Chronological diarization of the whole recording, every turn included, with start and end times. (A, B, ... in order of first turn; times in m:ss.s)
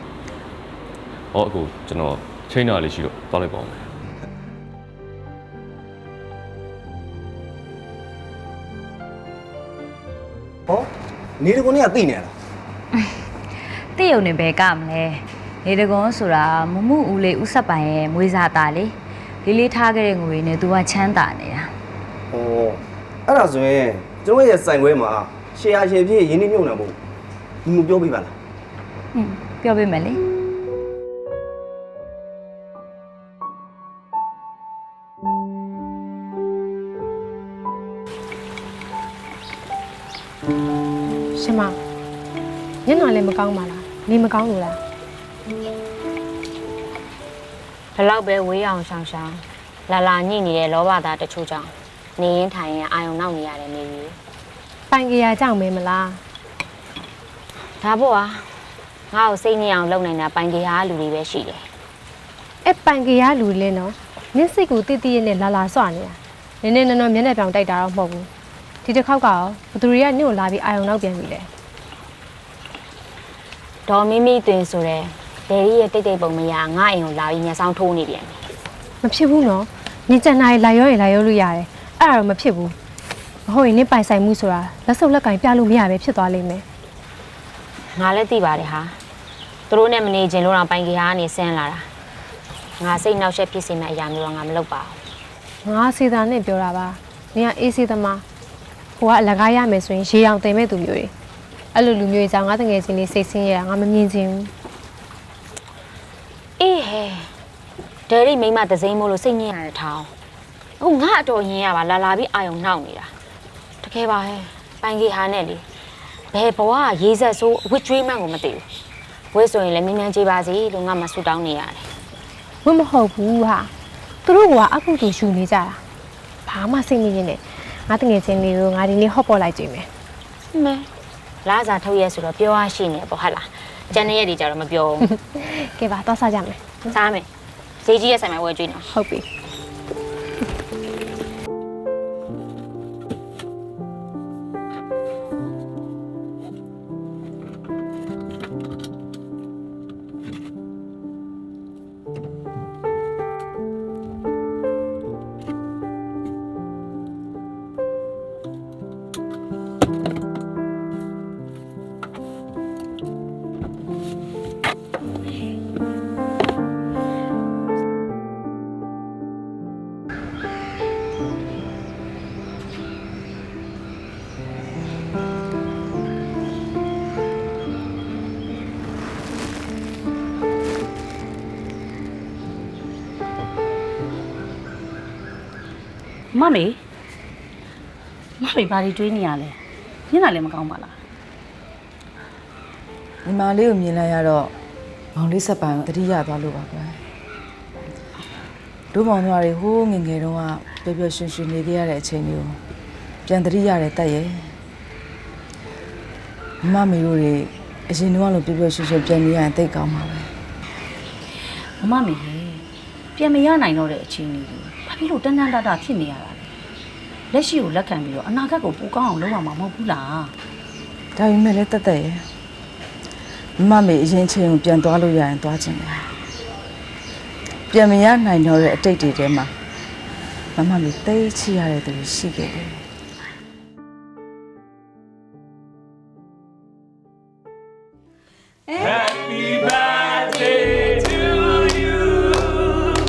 0:01.3-0:03.9 A
0:11.4-0:12.3 B
0:13.9-0:21.7 C
0:22.3-0:26.9 B
0:27.6-0:28.3 B
0:29.1-0:30.2 C
0:41.3-0:41.8 D
0:42.8-0:44.8 D
0:47.9-0:54.2 E
0:54.9-0:56.2 D
0:57.8-0:58.5 E
0:59.1-1:01.6 E
1:02.6-1:08.3 D
1:08.8-1:11.5 D
1:13.9-1:18.4 E
1:19.0-1:22.7 D
1:23.5-1:26.6 D
1:27.9-1:29.0 E
1:29.7-1:31.9 E
1:32.8-1:35.0 E
1:35.6-1:38.2 D
1:39.0-1:41.1 D
1:41.7-1:44.5 D
1:46.6-1:47.3 E
1:48.1-1:50.1 E
1:50.8-1:53.1 E
1:53.8-1:55.6 E
1:56.3-1:58.6 E
1:59.3-2:01.9 E
2:02.6-2:03.7 D
2:04.2-2:05.8 D
2:06.4-2:09.9 D
2:10.5-2:10.9 E
2:11.4-2:15.1 E
2:15.1-2:16.8 D
2:16.9-2:17.3 E
2:17.8-2:18.8 E
2:18.9-2:19.2 D
3:06.3-3:06.8 F
3:08.4-3:09.6 F
3:10.1-3:11.0 F
3:13.2-3:14.5 G
3:15.1-3:17.0 G
3:18.9-3:22.6 G
3:23.2-3:24.5 G
3:26.6-3:30.3 G
3:31.8-3:32.6 F
3:33.2-3:36.4 F
3:37.3-3:40.3 F
3:41.2-3:42.2 G
3:43.6-3:46.1 G
3:47.7-3:49.5 G
3:50.6-3:52.8 G
3:59.5-4:02.8 H